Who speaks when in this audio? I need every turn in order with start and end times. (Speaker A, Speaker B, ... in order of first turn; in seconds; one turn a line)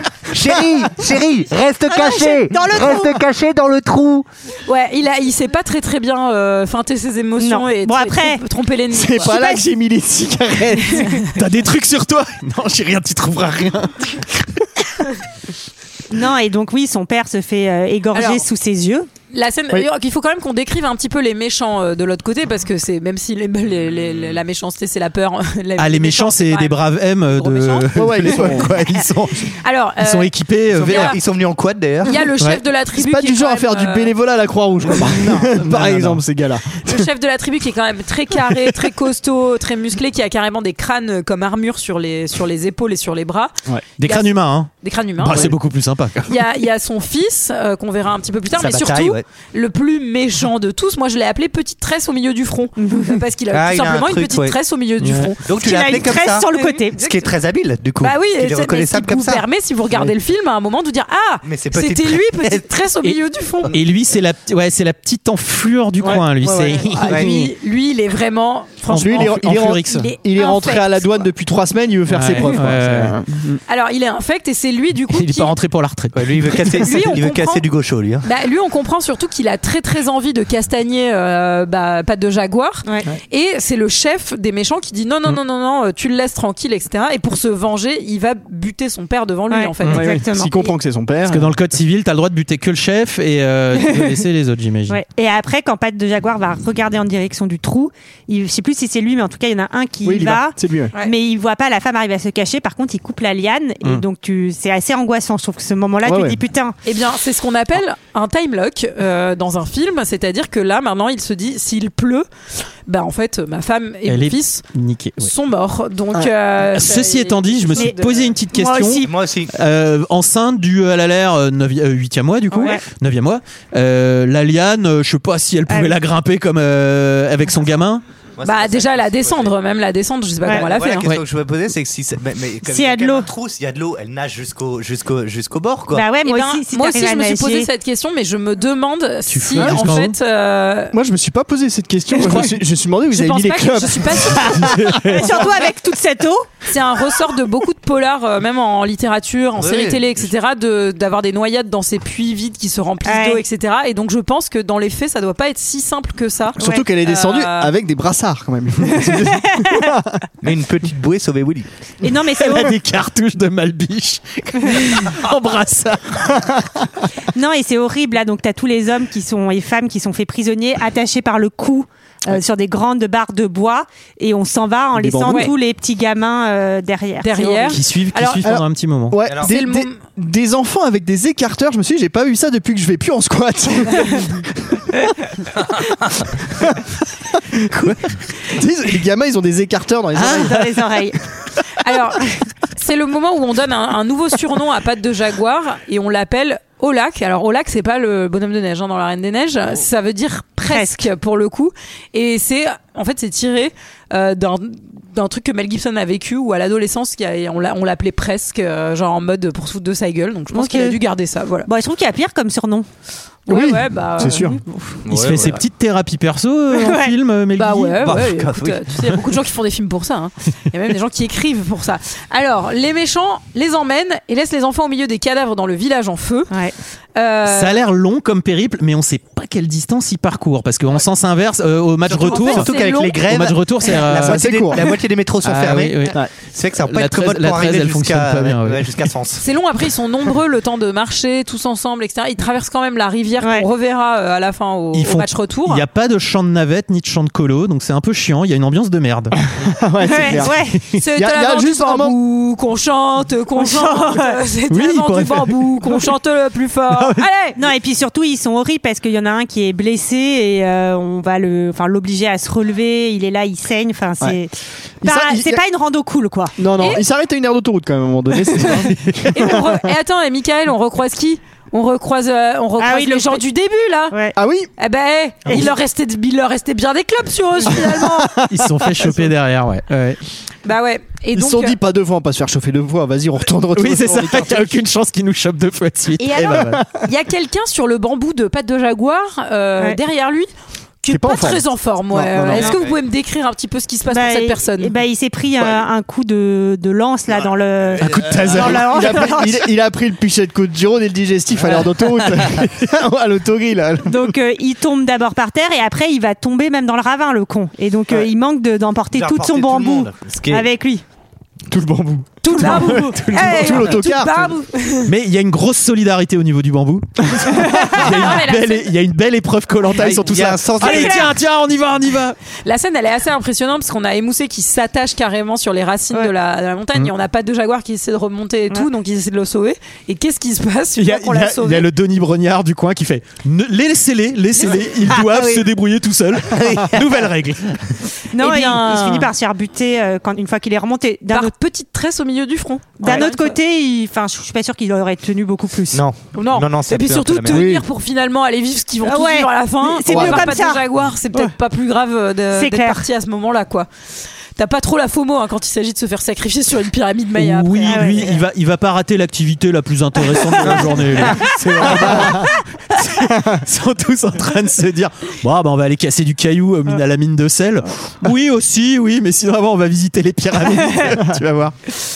Speaker A: 0.3-4.2
Speaker B: 0.5-0.9
Speaker C: 1.9-3.2
Speaker D: 4.7-9.3
Speaker C: 7.4-8.4
Speaker B: 8.9-11.2
Speaker C: 9.3-9.6
Speaker D: 10.9-11.2
Speaker E: 11.3-14.7
Speaker C: 16.1-19.1
Speaker D: 18.1-18.4
Speaker D: 19.3-27.9
Speaker E: 25.8-28.8
Speaker B: 27.9-29.5
Speaker A: 28.4-29.0
Speaker D: 29.6-30.3
Speaker E: 30.0-31.2
Speaker A: 30.8-32.2
Speaker D: 30.8-31.2
Speaker D: 32.0-34.1
Speaker B: 32.4-37.1
Speaker E: 35.0-36.2
Speaker D: 36.8-45.5
Speaker E: 44.0-46.4
Speaker D: 46.3-55.5
Speaker A: 48.5-49.2
Speaker C: 52.8-53.2
Speaker A: 53.5-54.6
Speaker E: 55.0-55.3
Speaker A: 55.4-59.4
Speaker C: 55.5-57.1
Speaker D: 56.5-56.8
Speaker D: 58.0-63.7
Speaker A: 61.4-62.7
Speaker E: 63.7-67.4
Speaker B: 66.0-66.8
Speaker D: 66.8-69.4
Speaker E: 68.9-70.0
Speaker B: 68.9-73.3
Speaker D: 69.9-71.2
Speaker E: 72.1-73.6
Speaker D: 73.7-75.5
Speaker E: 75.1-76.9
Speaker A: 76.1-78.2
Speaker D: 76.8-77.6
Speaker D: 78.2-90.2
Speaker C: 89.5-90.5
Speaker B: 89.9-91.5
Speaker E: 91.3-95.0
Speaker C: 94.9-106.8
Speaker B: 100.0-100.9
Speaker B: 106.0-106.4
Speaker D: 106.8-112.2
Speaker D: 112.9-114.6
Speaker E: 114.1-115.3
Speaker D: 115.2-118.3
Speaker E: 116.6-128.0
Speaker C: 118.5-119.1
Speaker A: 119.0-119.5
Speaker C: 122.5-122.8
Speaker C: 125.7-125.9
Speaker A: 128.4-129.5
Speaker D: 128.4-131.1
Speaker A: 130.5-136.1
Speaker C: 132.7-133.3
Speaker C: 135.9-137.7
Speaker D: 136.2-140.9
Speaker E: 139.3-140.2
Speaker B: 139.6-140.0
Speaker B: 140.9-144.9
Speaker D: 143.1-144.7
Speaker E: 144.6-145.3
Speaker C: 145.1-146.5
Speaker D: 146.7-157.7
Speaker A: 149.6-150.2
Speaker C: 153.0-153.4
Speaker B: 156.6-160.2
Speaker C: 156.6-156.8
Speaker C: 159.0-159.9
Speaker A: 160.4-161.7
Speaker C: 162.0-162.8
Speaker E: 162.4-166.5
Speaker B: 166.3-166.6
Speaker C: 167.3-177.8
Speaker B: 174.9-175.5
Speaker D: 175.3-175.5
Speaker D: 177.2-178.4
Speaker E: 177.7-179.2
Speaker B: 178.4-185.0
Speaker D: 179.4-180.0
Speaker B: 186.5-188.0
Speaker B: 188.5-190.8
Speaker E: 190.2-190.6
Speaker C: 190.3-191.2
Speaker D: 191.8-211.7
Speaker C: 200.7-201.1
Speaker C: 210.5-211.0
Speaker C: 211.7-212.9
Speaker D: 213.5-214.6
Speaker B: 213.5-214.6
Speaker C: 214.5-214.9
Speaker A: 215.0-215.6
Speaker E: 215.1-218.2
Speaker C: 216.7-217.1
Speaker D: 217.6-226.5
Speaker A: 218.0-219.2
Speaker D: 227.2-227.8
Speaker E: 227.4-236.2
Speaker A: 232.1-239.4
Speaker D: 232.2-233.2
Speaker B: 234.2-234.8
Speaker E: 236.8-239.1
Speaker D: 239.4-245.8
Speaker C: 243.4-243.7
Speaker E: 244.9-249.4
Speaker B: 249.6-252.2
Speaker C: 250.1-250.8
Speaker D: 250.9-257.6
Speaker C: 253.6-254.4
Speaker E: 254.7-255.6
Speaker C: 257.6-264.5
Speaker B: 265.0-265.6
Speaker C: 265.0-266.5
Speaker B: 266.6-269.7
Speaker D: 269.3-274.2
Speaker C: 272.8-273.4
Speaker C: 274.1-274.4
Speaker B: 274.4-274.7
Speaker D: 274.8-278.3
Speaker B: 277.8-279.3
Speaker E: 278.5-280.2
Speaker D: 280.6-281.8
Speaker B: 281.3-284.8
Speaker E: 283.7-286.8
Speaker D: 286.2-290.5
Speaker B: 286.4-286.9
Speaker D: 291.0-294.9
Speaker B: 291.1-292.8
Speaker A: 292.6-293.0
Speaker C: 294.1-299.6
Speaker A: 297.3-298.8
Speaker E: 298.0-298.9
Speaker B: 298.1-304.3
Speaker A: 302.4-302.6
Speaker C: 304.1-311.0
Speaker A: 309.1-310.7
Speaker B: 311.7-314.5
Speaker D: 312.4-315.1
Speaker C: 312.6-313.0
Speaker E: 315.1-322.4
Speaker D: 317.9-318.9
Speaker A: 319.9-321.3
Speaker C: 320.8-321.1
Speaker D: 322.6-331.9
Speaker E: 331.0-337.8
Speaker A: 336.4-337.8
Speaker C: 338.3-341.5
Speaker D: 338.4-339.3
Speaker D: 341.3-343.6
Speaker C: 343.0-346.0
Speaker A: 345.9-347.7
Speaker D: 346.3-353.9
Speaker B: 347.5-347.8
Speaker C: 349.0-351.5
Speaker B: 350.1-350.4
Speaker C: 352.5-353.1
Speaker D: 354.6-358.4
Speaker E: 357.4-371.8
Speaker C: 357.9-358.3
Speaker B: 361.8-362.5
Speaker B: 363.2-363.6
Speaker C: 370.8-371.1
Speaker B: 371.1-371.4